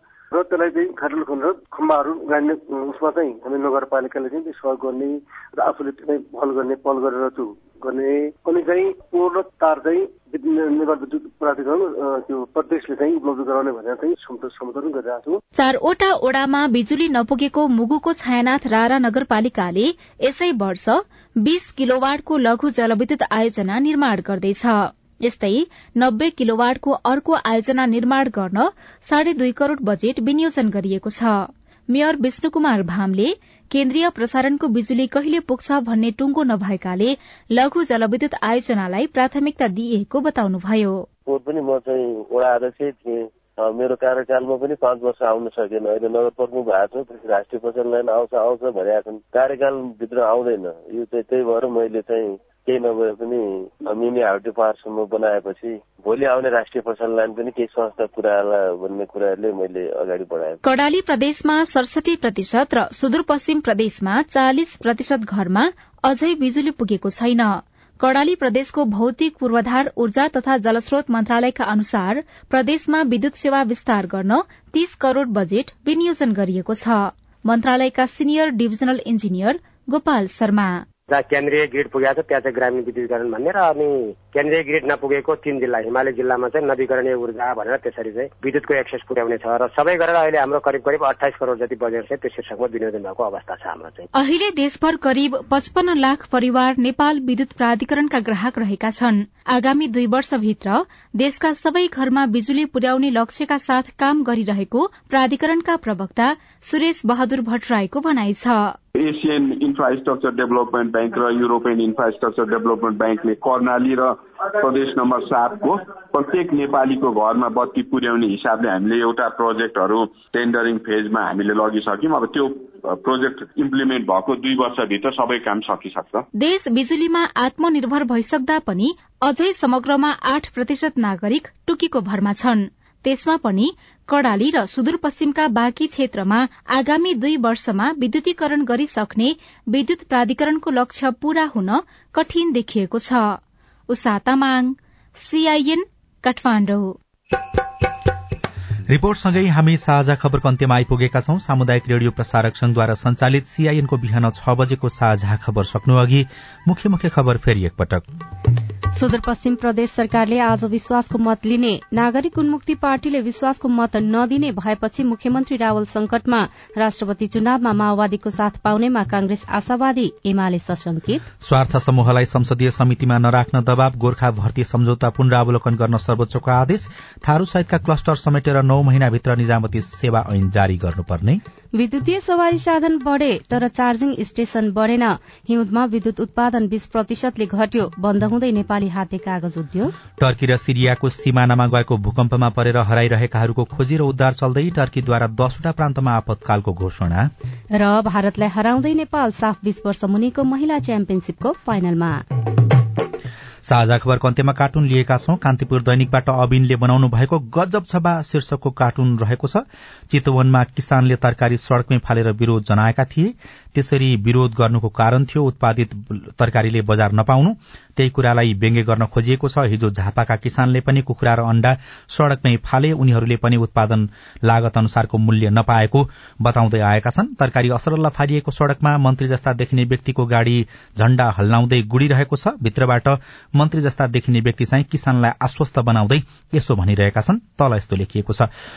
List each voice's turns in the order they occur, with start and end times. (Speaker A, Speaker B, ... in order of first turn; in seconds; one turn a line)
Speaker A: 0.3-15.4
Speaker B: 15.6-41.1
Speaker C: 41.3-60.6
Speaker B: 60.6-80.8
Speaker D: 81.1-94.1
Speaker B: 94.1-108.8
Speaker E: 108.9-126.2
Speaker B: 126.4-143.4
Speaker B: 143.9-147.0
Speaker F: 148.9-158.1
Speaker G: 158.9-171.2
Speaker F: 171.4-181.4
Speaker G: 181.8-189.9
Speaker F: 190.2-197.3
Speaker G: 197.7-202.2
Speaker F: 203.6-238.5